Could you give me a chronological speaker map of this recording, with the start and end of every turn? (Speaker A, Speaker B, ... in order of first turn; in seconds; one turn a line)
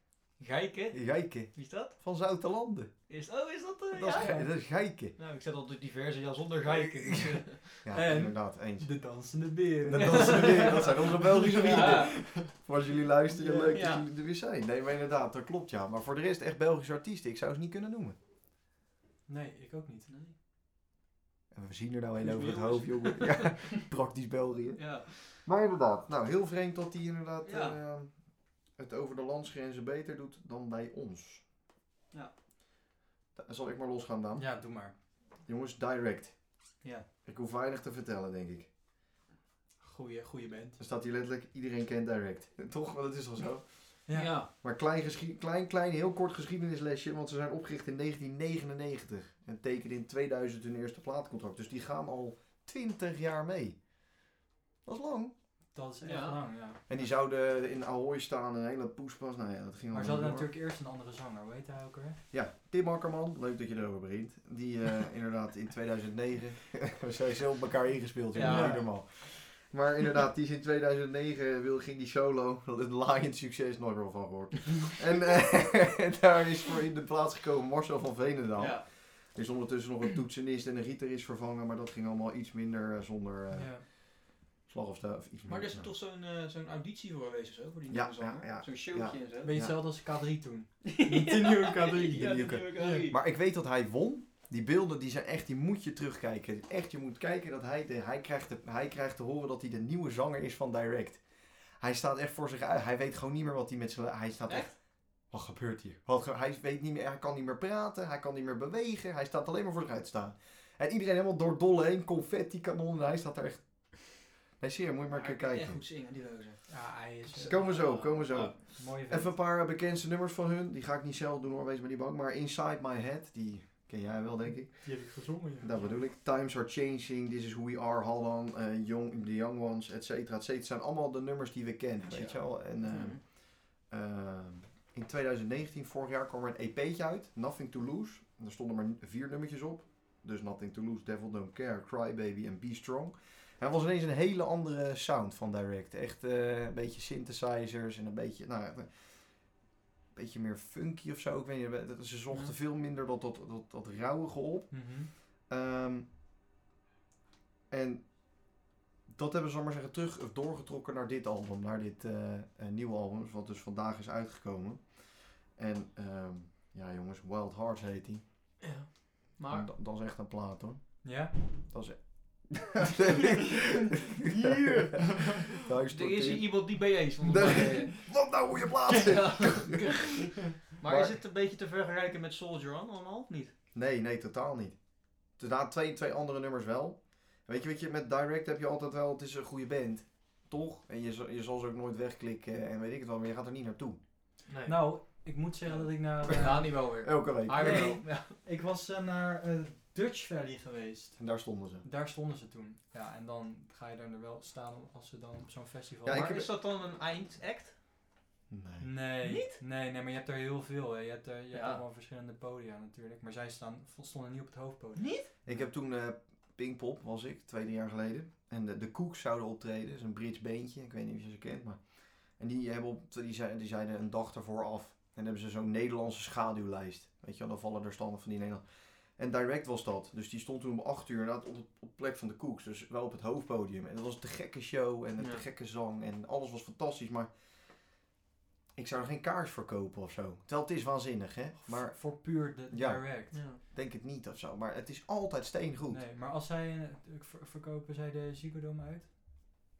Speaker A: 0.4-1.9
Speaker B: 0.9-2.9
Speaker A: 3.1-4.5
Speaker B: 3.9-5.1
Speaker C: 4.2-4.5
Speaker A: 5.2-7.8
Speaker B: 6.7-9.0
Speaker C: 7.9-12.5
Speaker B: 9.8-18.1
Speaker A: 10.0-12.2
Speaker C: 13.3-13.7
Speaker A: 13.7-14.0
Speaker C: 19.3-20.1
Speaker A: 20.1-20.3
Speaker B: 21.5-31.4
Speaker A: 22.2-23.5
Speaker A: 24.8-25.4
Speaker A: 27.4-27.8
Speaker B: 33.4-34.5
Speaker C: 34.3-34.9
Speaker B: 35.4-36.4
Speaker B: 37.2-38.7
Speaker C: 39.8-40.8
Speaker B: 40.8-53.8
Speaker C: 44.0-44.3
Speaker A: 44.1-44.5
Speaker B: 54.8-55.3
Speaker C: 55.7-57.0
Speaker A: 56.0-56.4
Speaker B: 56.9-60.5
Speaker C: 59.9-62.2
Speaker B: 62.3-84.0
Speaker A: 68.3-68.8
Speaker C: 68.4-68.8
Speaker A: 78.5-78.8
Speaker C: 83.5-83.8
Speaker B: 84.7-85.9
Speaker A: 85.5-89.5
Speaker B: 87.9-89.8
Speaker C: 89.4-93.1
Speaker A: 90.8-93.2
Speaker B: 92.1-101.2
Speaker B: 101.8-115.8
Speaker A: 104.5-104.7
Speaker A: 115.1-118.6
Speaker C: 116.7-119.3
Speaker B: 117.4-149.6
Speaker C: 124.7-125.7
Speaker A: 132.1-133.2
Speaker B: 150.1-156.1
Speaker C: 154.7-155.1
Speaker B: 157.7-158.1
Speaker B: 159.1-168.2
Speaker A: 168.6-169.7
Speaker B: 169.5-180.3
Speaker C: 171.0-171.3
Speaker C: 174.2-175.5
Speaker A: 175.9-178.1
Speaker A: 178.9-183.5
Speaker B: 180.8-181.2
Speaker B: 183.7-184.8
Speaker B: 185.3-194.0
Speaker A: 194.5-195.0
Speaker C: 194.6-196.8
Speaker A: 195.6-198.3
Speaker B: 196.3-198.0
Speaker C: 197.6-201.2
Speaker B: 201.2-201.8
Speaker C: 201.8-206.3
Speaker B: 206.0-206.4
Speaker A: 206.1-207.7
Speaker B: 208.5-208.9
Speaker C: 208.8-215.7
Speaker A: 209.2-209.6
Speaker A: 211.5-211.8
Speaker A: 215.0-215.3
Speaker B: 215.4-237.3
Speaker B: 238.8-246.0
Speaker C: 241.6-243.4
Speaker A: 243.3-243.6
Speaker C: 245.9-249.1